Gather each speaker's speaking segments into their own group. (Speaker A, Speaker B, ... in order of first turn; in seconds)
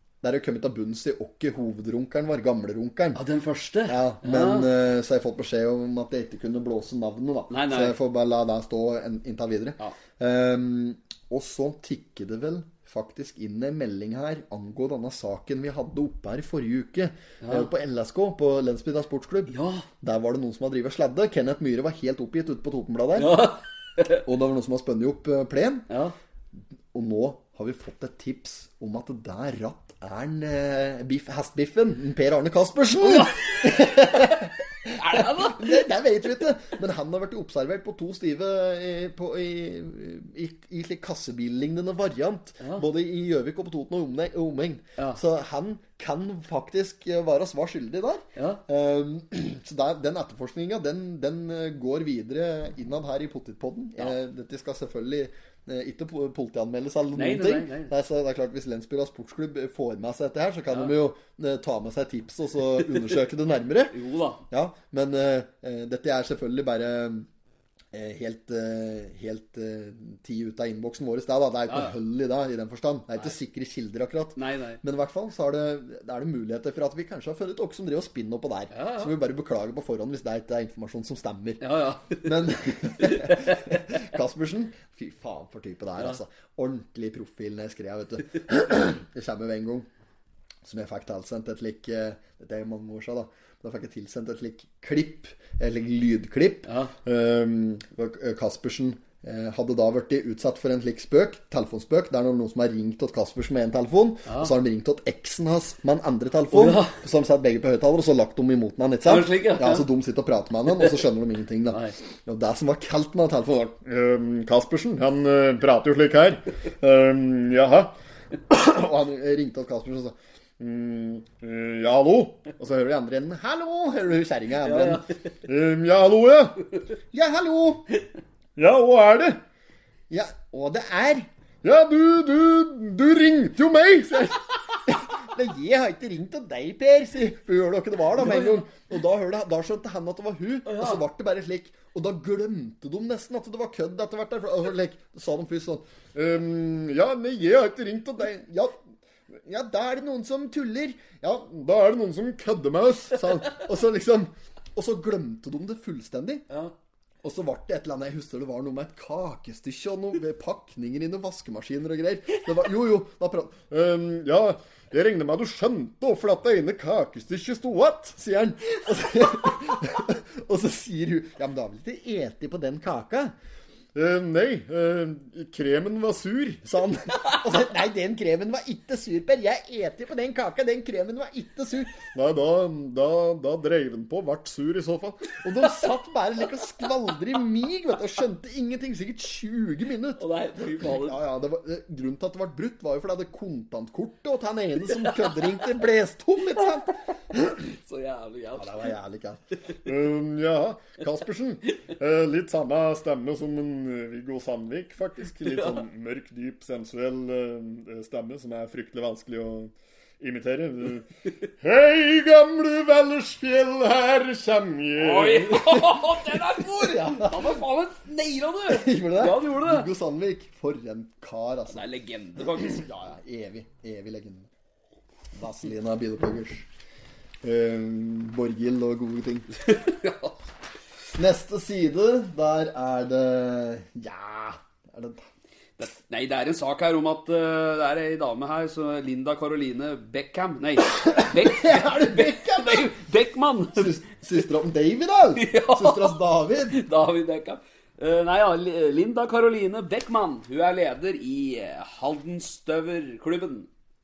Speaker A: 0.2-3.2, 3.9-23.5, 24.2-25.9, 26.9-64.0, 64.5-67.3, 67.9-89.9, 90.6-117.9, 118.5-127.9, 128.6-129.4, 130.1-148.8, 149.3-156.4, 157.2-173.3, 173.9-190.2, 190.8-197.6, 198.6-217.6, 218.7-221.8, 222.6-224.5, 225.3-226.7, 227.4-229.5, 231.1-235.2, 241.0-242.9, 243.7-246.8
Speaker B: 3.1-4.7, 7.5-8.0, 17.4-17.7, 19.5-19.9, 23.1-24.2, 25.9-26.1, 33.0-35.9, 42.6-42.9, 48.4-48.6, 57.1-57.9, 60.7-61.0, 63.9-64.4, 71.7-71.9, 74.4-74.8, 78.7-79.1, 81.6-83.8, 96.7-96.9, 104.3-104.5, 106.5-107.0, 109.0-109.9, 111.7-112.0, 124.6-125.1, 138.1-138.7, 140.7-141.0, 190.2-191.2, 194.9-195.6, 197.6-198.9, 205.4-205.8, 215.0-219.9, 221.7-222.8, 229.6-230.3, 235.8-243.9, 245.4-246.2, 246.7-253.7